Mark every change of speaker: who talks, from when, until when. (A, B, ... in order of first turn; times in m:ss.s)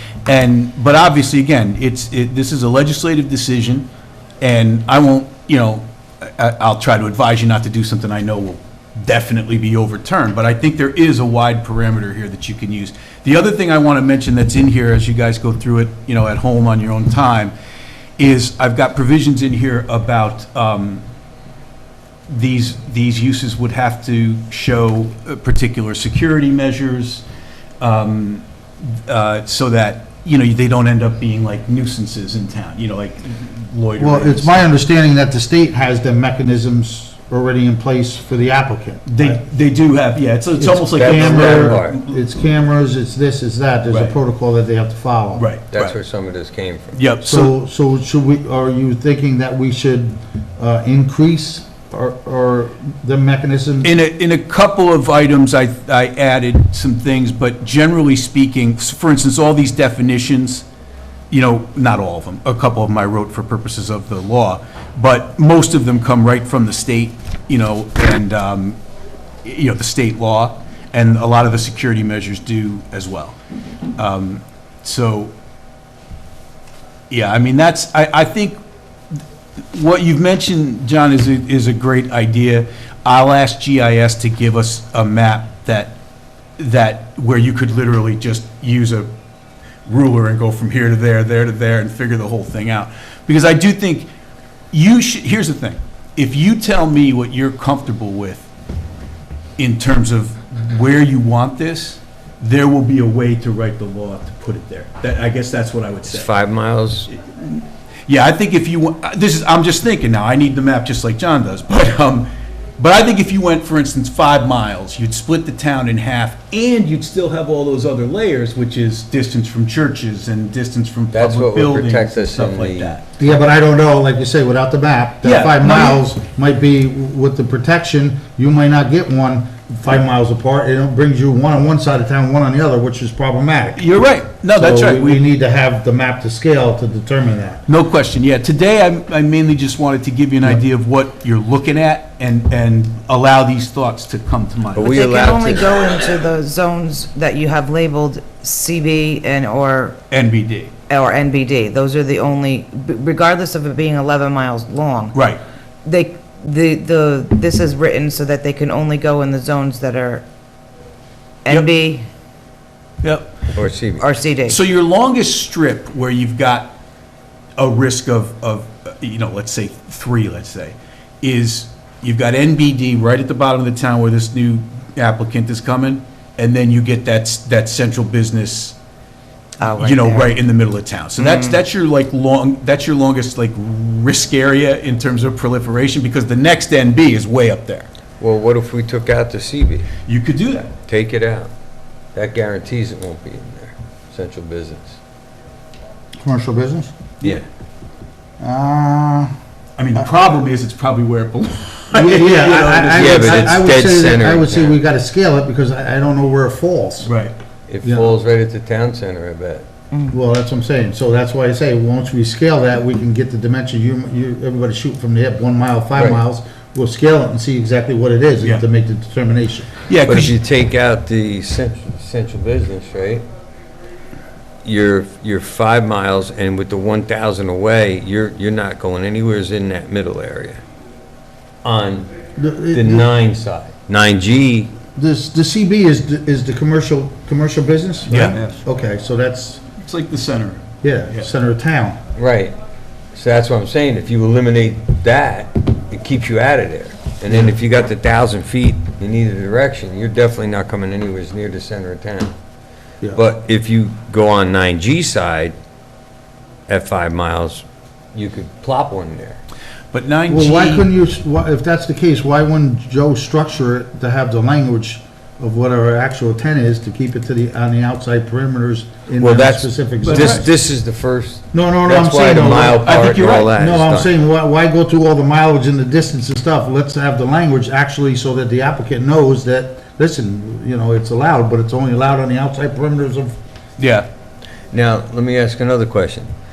0:00.2-0:03.9 A
0:04.4-0:17.5 A
0:18.2-0:21.0 A
0:22.3-0:27.2 A
0:27.8-0:34.7 A
0:34.0-0:39.4 B
0:39.0-0:42.0 A
0:40.6-0:45.4 B
0:40.9-0:42.0 C
0:43.9-0:44.2 A
0:45.3-0:46.0 A
0:45.7-0:47.0 C
0:46.9-0:47.5 A
0:47.2-0:53.9 B
0:53.8-1:00.6 A
1:01.3-1:08.8 A
1:09.4-1:13.4 A
1:14.0-1:15.3 A
1:17.1-1:18.6 A
1:19.7-1:25.9 A
1:26.6-1:29.1 A
1:29.8-1:34.1 A
1:34.7-1:38.5 A
1:39.6-1:46.3 A
1:46.1-1:47.1 C
1:47.1-2:03.0 A
2:01.1-2:02.9 C
2:03.2-2:13.8 B
2:05.2-2:06.0 A
2:13.8-2:15.2 A
2:14.6-2:17.6 B
2:17.7-2:25.0 A
2:24.7-2:26.1 C
2:24.8-2:30.0 D
2:30.1-2:30.7 A
2:30.9-2:35.1 D
2:35.1-2:35.4 A
2:35.8-2:40.2 D
2:41.4-2:42.1 D
2:43.0-2:43.3 A
2:43.5-2:44.0 C
2:44.0-2:44.6 D
2:44.5-2:46.7 A
2:47.6-2:58.8 A
2:59.6-3:00.3 D
2:59.8-3:07.9 A
3:01.2-3:01.6 D
3:08.2-3:09.9 C
3:10.0-3:10.7 A
3:10.5-3:11.5 C
3:12.1-3:15.0 C
3:16.2-3:16.9 B
3:18.4-3:19.3 B
3:19.8-3:23.7 A
3:21.9-3:27.1 B
3:22.9-3:24.8 C
3:27.0-3:27.3 A
3:27.7-3:29.7 C
3:27.8-3:28.2 B
3:30.1-3:39.7 B
3:35.9-3:36.2 C
3:39.8-3:40.4 A
3:40.0-3:43.2 C
3:44.6-3:50.6 C
3:51.6-3:52.1 C
3:52.4-3:53.1 B
3:52.7-3:54.7 C
3:54.9-3:59.6 B
3:58.1-3:58.6 A
3:59.8-4:01.2 A
4:00.8-4:02.0 B
4:02.1-4:02.5 C
4:03.1-4:12.3 C
4:07.3-4:07.5 B
4:13.1-4:15.5 C
4:16.7-4:19.4 C
4:19.9-4:20.9 A
4:20.3-4:30.4 B
4:29.2-4:34.1 C
4:30.0-4:30.4 A
4:31.5-4:43.3 B
4:32.8-4:33.5 A
4:43.8-4:44.1 A
4:44.7-4:46.3 C